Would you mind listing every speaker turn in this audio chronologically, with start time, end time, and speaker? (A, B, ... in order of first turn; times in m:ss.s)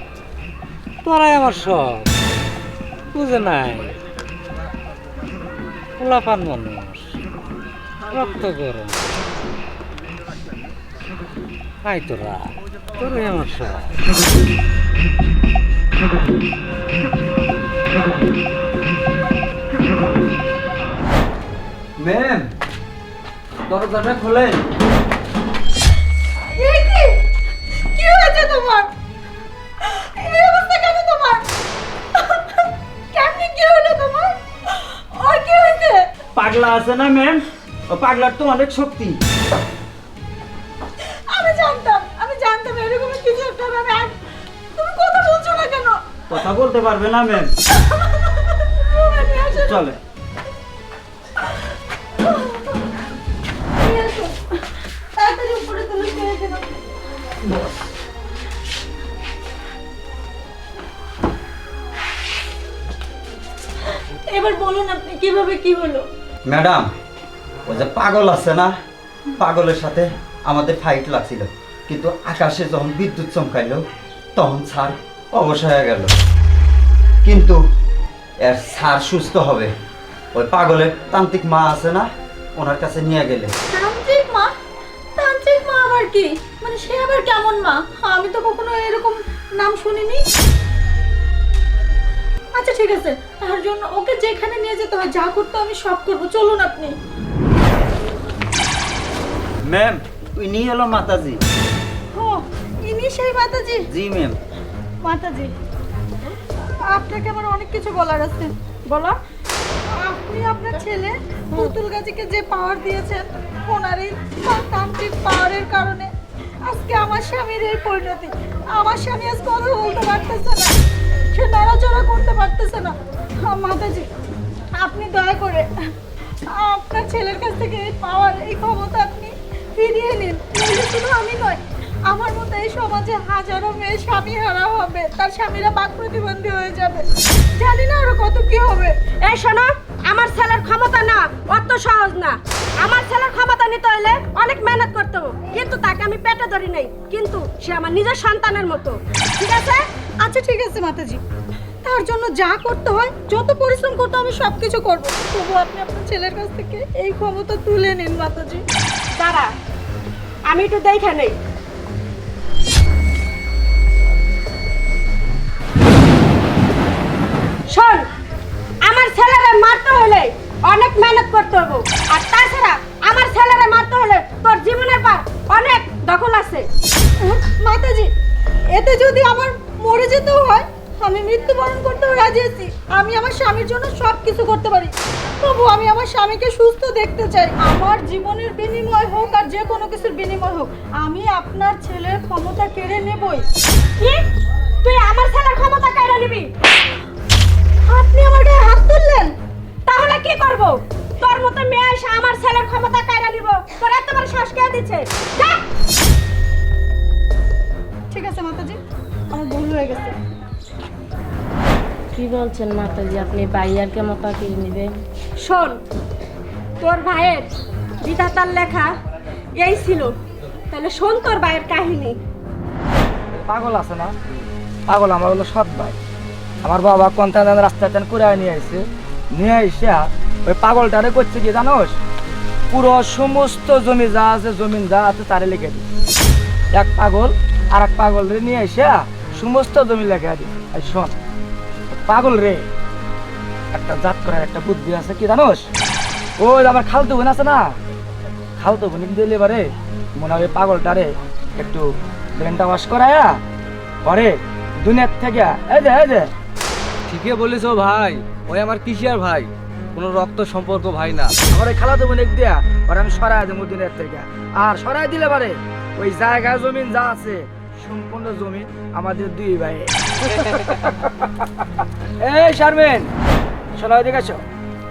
0:01.0-0:02.1 A
0:03.1-0:04.0 A
0:06.0-0:07.2 A
0:08.1-0:09.3 A
0:11.8-0:13.9 A
0:22.0-0:22.5 B
0:23.7-0:24.6 B
0:26.5-0:27.2 C
0:28.0-0:28.9 C
0:29.8-0:31.5 C
0:33.1-0:34.4 C
0:35.2-0:36.1 C
0:36.4-0:39.2 B
0:41.3-0:44.2 C
0:44.8-0:46.0 C
0:46.3-0:47.5 B
0:47.9-0:49.9 C
0:49.5-0:50.0 B
0:53.8-0:54.4 C
0:55.2-0:56.8 C
1:04.3-1:06.0 C
1:06.5-1:06.9 B
1:07.7-1:08.8 B
1:09.4-1:13.8 B
1:14.4-1:16.1 B
1:17.2-1:17.6 B
1:18.4-1:19.7 B
1:20.3-1:23.5 B
1:23.7-1:24.5 C
1:25.2-1:30.2 C
1:32.6-1:37.0 C
1:39.6-1:41.4 B
1:42.1-1:43.9 C
1:43.9-1:44.4 B
1:45.0-1:45.5 C
1:46.9-1:48.5 C
1:48.9-1:49.2 D
1:49.9-1:56.1 C
1:56.7-2:00.7 C
2:01.3-2:04.1 C
2:04.8-2:05.7 C
2:06.5-2:17.1 C
2:17.6-2:18.9 C
2:19.2-2:29.8 D
2:30.2-2:31.2 C
2:31.8-2:38.6 C
2:39.2-2:39.5 D
2:40.5-2:41.4 D
2:47.7-2:48.0 D
2:48.8-2:56.7 D
2:57.2-2:58.1 C
2:58.7-3:13.5 C
3:14.8-3:16.5 D
3:17.9-3:19.3 C
3:19.9-3:25.6 D
3:28.1-3:28.8 C
3:29.3-3:30.1 C
3:32.1-3:35.0 E
3:35.4-3:35.8 D
3:36.8-3:38.9 D
3:39.6-3:40.1 D
3:40.7-3:42.2 D
3:43.3-3:44.1 F
3:44.9-3:46.0 F
3:46.6-3:48.8 F
3:49.4-3:52.0 F
3:52.7-3:55.9 F
3:56.7-4:01.2 F
4:01.9-4:02.6 F
4:03.7-4:05.6 F
4:06.4-4:07.7 F
4:08.6-4:09.7 F
4:10.2-4:11.9 F
4:12.4-4:13.4 F
4:14.0-4:16.3 F
4:17.1-4:21.3 G
4:21.5-4:31.7 F
4:32.2-4:33.1 F
4:33.8-4:34.4 F